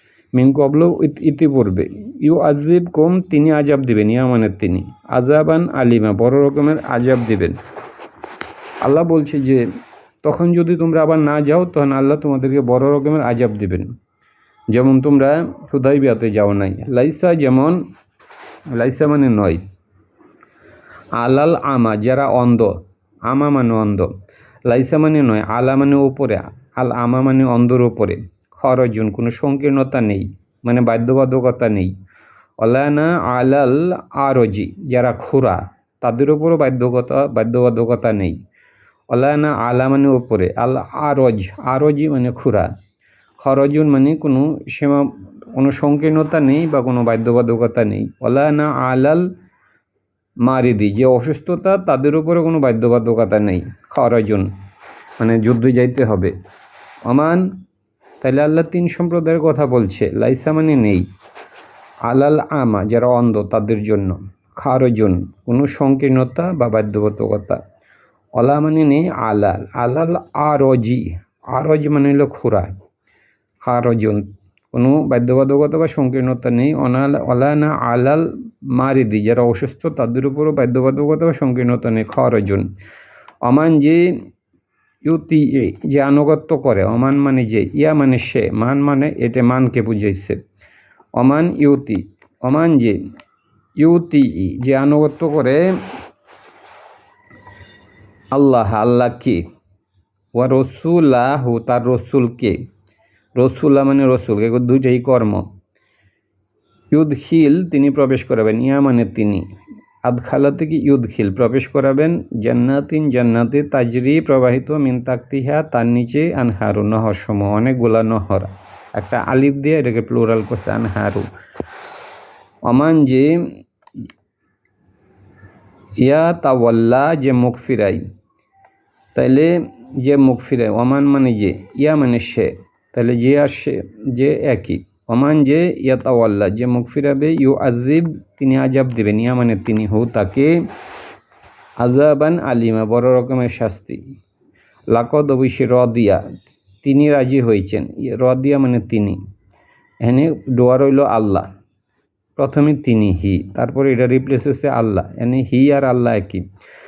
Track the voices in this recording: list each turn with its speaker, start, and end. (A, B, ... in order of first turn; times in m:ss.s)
0:00.3-0:07.6 A
0:08.8-0:09.7 A
0:10.2-0:13.9 A
0:14.7-0:17.8 A
0:18.7-0:19.6 A
0:21.2-0:24.1 A
0:24.7-0:31.9 A
0:32.6-0:38.4 A
0:39.1-0:42.7 A
0:43.4-0:49.3 A
0:50.4-0:54.5 A
0:55.2-0:56.3 A
0:57.1-0:57.5 A
0:58.2-1:01.1 A
1:02.0-1:07.6 A
1:08.4-1:12.7 A
1:13.6-1:22.7 A
1:23.4-1:24.2 A
1:25.0-1:30.4 A
1:31.2-1:33.0 A
1:33.8-1:35.8 A
1:38.3-1:39.4 A
1:40.3-1:42.6 A
1:43.4-1:45.5 A
1:46.9-1:49.4 A
1:50.0-2:01.3 A
2:02.7-2:03.3 A
2:06.0-2:08.0 A
2:09.2-2:20.5 A
2:21.8-2:24.0 A
2:24.9-2:26.2 A
2:26.8-2:29.2 A
2:30.0-2:31.5 A
2:32.4-2:36.4 A